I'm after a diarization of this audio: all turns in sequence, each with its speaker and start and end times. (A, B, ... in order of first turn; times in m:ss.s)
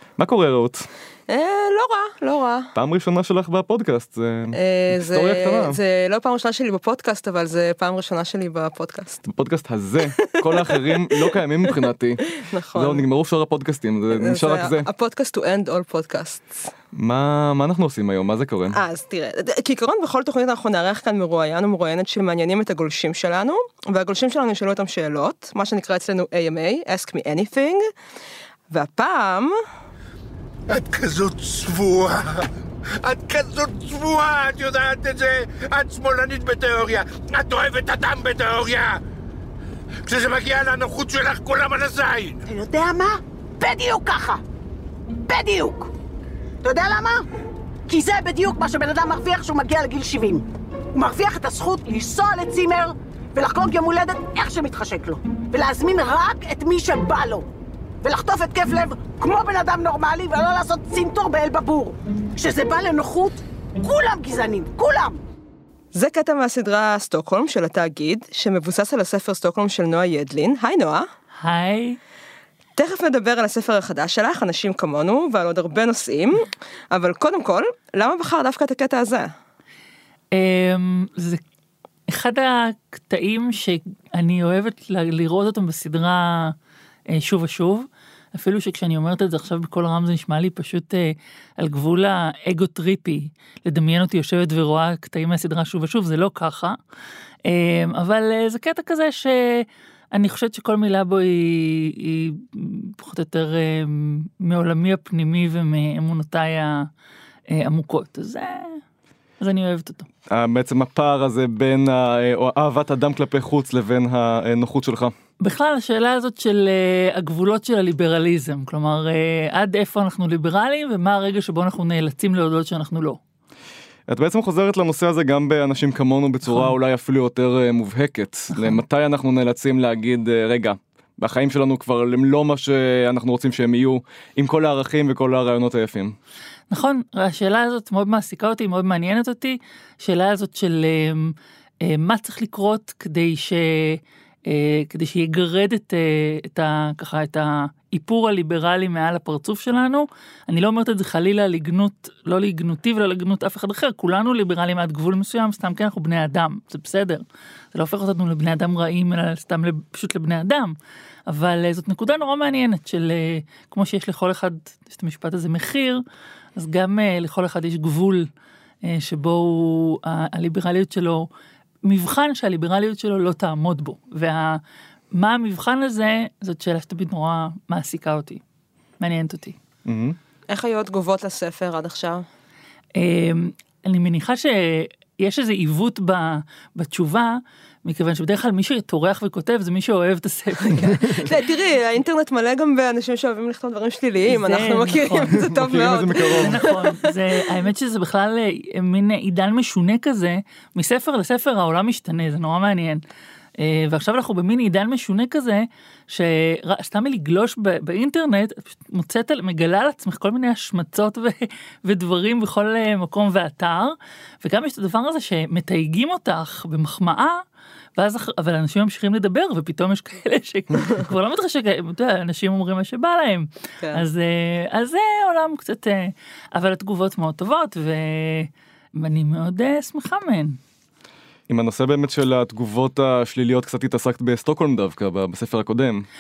0:00.2-0:00.9 A
0:01.3-0:02.7 B
0:02.7-0:05.8 A
0:04.5-0:09.2 B
0:09.2-0:14.9 A
0:10.0-0:11.3 B
0:12.4-0:13.0 B
0:14.1-0:16.7 B
0:16.9-0:18.8 A
0:18.7-0:27.8 B
0:28.7-0:29.6 B
0:30.7-0:32.4 C
0:33.0-0:39.0 C
0:40.0-0:42.4 C
0:42.5-0:44.4 D
0:45.3-0:45.9 D
0:46.6-0:47.2 D
0:47.9-0:57.5 D
0:58.0-1:05.2 D
1:05.9-1:11.1 B
1:11.3-1:12.0 E
1:12.8-1:19.3 B
1:20.3-1:21.4 E
1:22.1-1:26.6 E
1:27.1-1:36.8 E
1:37.4-1:46.9 E
1:47.5-1:48.8 E
1:49.4-1:50.1 E
1:50.3-1:55.1 A
1:55.4-2:03.2 E
2:04.1-2:16.2 A
2:06.5-2:06.7 E
2:08.5-2:08.8 E
2:16.7-2:37.2 E
2:37.7-2:40.8 E
2:41.3-2:46.0 E
2:46.6-2:48.3 E
2:48.8-2:51.3 E
2:51.8-2:54.6 E
2:55.1-2:58.4 E
2:59.0-2:59.6 E
2:59.8-3:00.2 A
3:00.5-3:02.2 B
3:02.9-3:11.4 E
3:11.1-3:17.4 B
3:14.2-3:15.5 E
3:15.5-3:16.6 A
3:16.1-3:23.0 E
3:23.6-3:37.4 E
3:38.0-3:50.6 E
3:43.8-3:44.0 B
3:51.5-3:56.0 A